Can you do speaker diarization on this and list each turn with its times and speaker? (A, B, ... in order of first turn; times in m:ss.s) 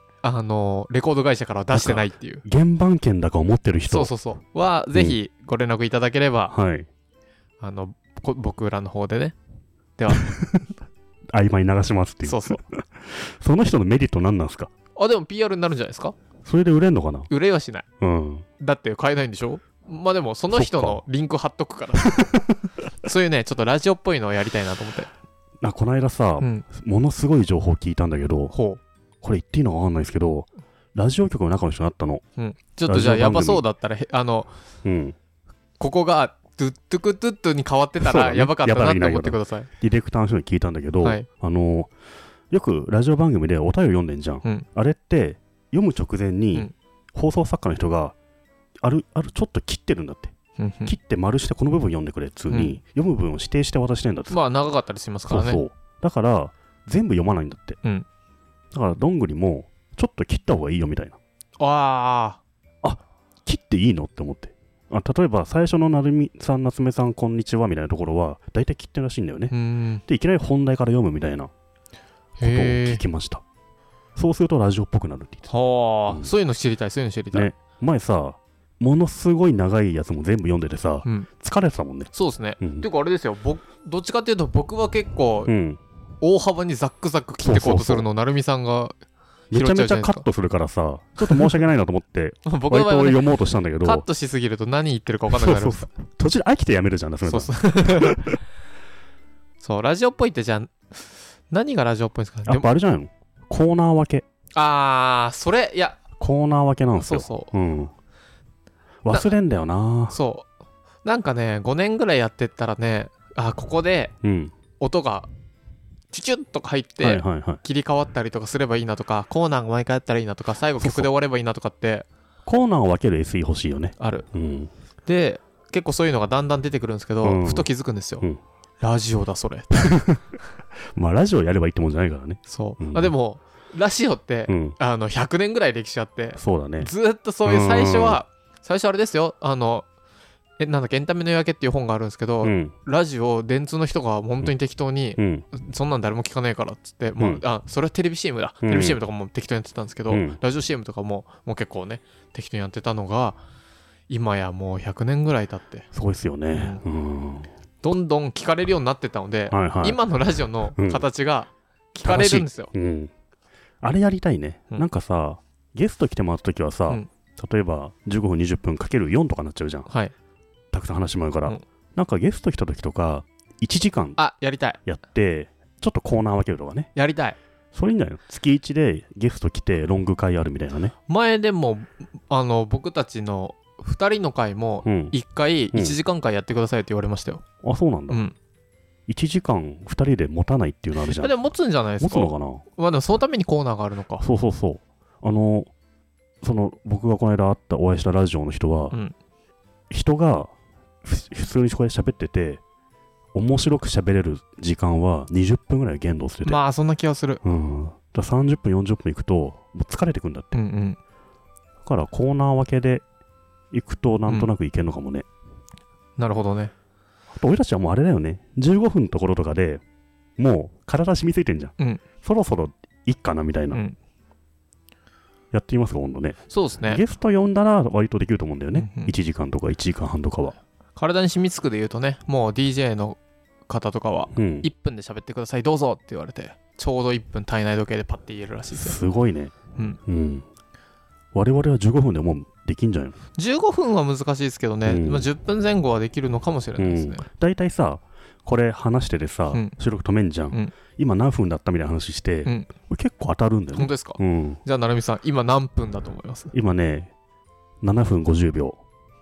0:00.2-0:02.4 A
0:01.7-0:04.1 B
0:03.9-0:06.5 A
0:06.5-0:06.9 B
0:07.6-0:09.4 A
0:10.0-0:10.3 A
0:10.1-0:10.6 B
0:11.3-0:14.7 B
0:12.2-0:12.6 A
0:15.0-0:16.2 A
0:16.4-0:17.3 B
0:17.3-0:17.8 A
0:18.0-0:18.5 B
0:18.6-0:22.1 A
0:20.5-0:21.0 B
0:22.0-0:22.4 B
0:23.0-0:25.1 A
0:25.6-0:28.5 B
0:26.4-0:26.6 A
0:28.5-0:28.8 A
0:29.2-0:32.2 B
0:32.4-0:34.5 A
0:32.9-0:33.6 B
0:34.8-0:35.2 B
0:35.8-0:39.7 A
0:38.0-0:41.9 B
0:41.0-0:41.3 A
0:42.5-0:48.2 B
0:48.8-0:50.3 B
0:50.6-0:51.0 A
0:50.9-0:54.4 B
0:52.5-0:52.8 A
0:54.3-0:55.6 A
0:55.3-0:57.8 B
0:58.7-1:01.2 B
1:01.6-1:02.4 A
1:02.8-1:09.5 B
1:09.5-1:10.0 A
1:10.1-1:11.5 B
1:12.4-1:13.0 A
1:12.4-1:13.4 B
1:14.2-1:15.5 B
1:15.5-1:17.5 A
1:17.3-1:22.9 B
1:22.1-1:25.5 A
1:25.5-1:25.8 B
1:26.2-1:29.0 A
1:27.4-1:28.0 B
1:29.5-1:34.0 B
1:29.5-1:30.3 A
1:31.2-1:31.6 A
1:32.5-1:33.3 A
1:33.8-1:35.9 A
1:35.3-1:38.4 B
1:37.3-1:38.2 A
1:39.6-1:42.7 A
1:42.5-1:44.2 B
1:44.6-1:46.0 A
1:46.2-1:47.9 B
1:47.0-1:47.5 A
1:49.0-1:50.2 B
1:50.1-1:50.5 A
1:51.0-1:54.1 A
1:54.2-1:54.5 B
1:54.8-1:55.3 A
1:56.1-2:02.1 A
1:57.0-1:57.6 B
2:00.8-2:01.1 B
2:02.5-2:04.7 B
2:04.0-2:04.3 A
2:05.1-2:08.3 A
2:07.2-2:07.7 B
2:08.8-2:09.8 A
2:09.7-2:10.2 B
2:11.0-2:13.1 B
2:12.5-2:19.9 A
2:14.5-2:14.8 B
2:16.4-2:16.9 B
2:17.4-2:18.2 B
2:20.6-2:33.4 A
2:22.4-2:22.7 B
2:25.2-2:25.5 B
2:28.6-2:29.0 B
2:30.1-2:30.4 B
2:34.1-2:35.9 A
2:35.9-2:37.5 B
2:36.5-2:36.8 A
2:37.8-2:42.7 A
2:39.5-2:40.0 B
2:40.8-2:41.1 B
2:42.0-2:43.1 B
2:43.8-2:49.9 B
2:49.9-2:50.1 A
2:50.7-2:54.2 B
2:54.2-2:54.8 A
2:54.9-2:56.9 B
2:57.0-2:57.4 A
2:57.7-3:00.9 B
3:01.1-3:07.4 A
3:04.8-3:05.2 B
3:05.7-3:06.0 B
3:07.6-3:08.2 B
3:08.1-3:08.4 A
3:09.1-3:11.3 B
3:11.0-3:14.2 A
3:12.0-3:12.6 B
3:14.2-3:15.7 B
3:16.4-3:19.0 B
3:19.9-3:20.5 B
3:21.0-3:22.6 B
3:23.4-3:26.6 B
3:26.4-3:27.4 A
3:27.4-3:30.6 B
3:30.5-3:31.0 A
3:31.8-3:33.0 B
3:33.7-3:35.2 B
3:36.2-3:36.7 A
3:37.3-3:39.8 B
3:40.4-3:43.8 B
3:43.7-3:44.0 A
3:45.5-3:50.6 B
3:46.5-3:47.0 A
3:48.8-3:49.1 A
3:51.0-3:59.0 A
3:54.3-3:54.7 B
3:58.7-4:00.4 B
4:01.3-4:03.2 B
4:03.4-4:07.3 A
4:04.9-4:05.3 B
4:06.8-4:14.6 B
4:12.4-4:12.7 A
4:13.7-4:16.5 A
4:16.5-4:17.1 B
4:17.8-4:18.8 B